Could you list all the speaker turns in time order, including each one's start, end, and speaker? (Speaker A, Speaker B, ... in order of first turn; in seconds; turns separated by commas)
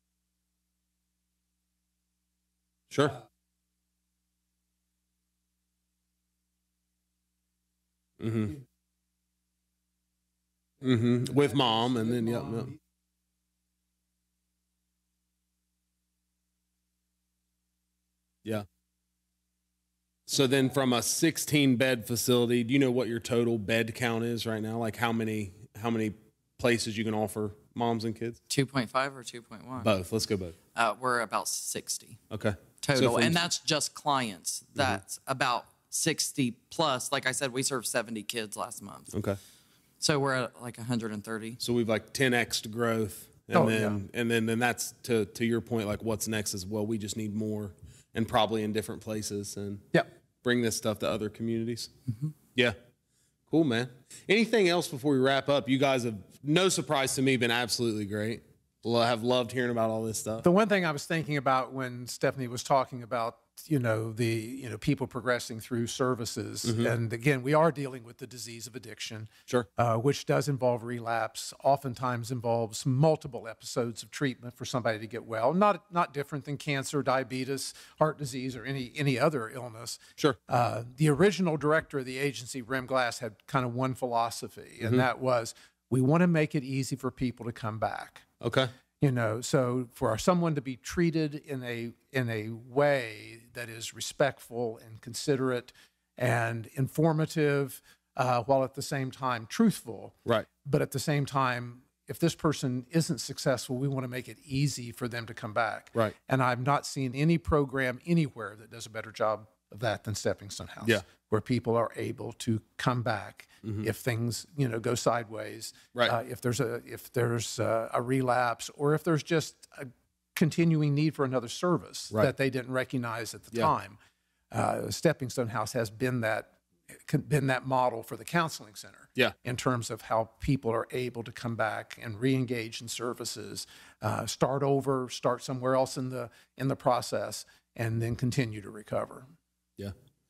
Speaker A: 2.9-3.2, Speaker A: 8.2-8.6, Speaker A: 10.8-12.8, Speaker A: 20.3-28.4, Speaker B: 28.5-29.9, Speaker A: 29.8-30.6, Speaker B: 30.8-32.2, Speaker A: 32.3-33.4, Speaker B: 32.8-39.1, Speaker A: 39.1-39.4, Speaker B: 40.0-41.6, Speaker A: 41.6-51.9, Speaker C: 43.5-44.0, Speaker B: 52.1-52.3, Speaker A: 53.5-60.5, Speaker C: 60.4-88.2, Speaker A: 66.7-66.9, Speaker A: 88.4-88.7, Speaker C: 89.0-124.0, Speaker C: 124.5-139.3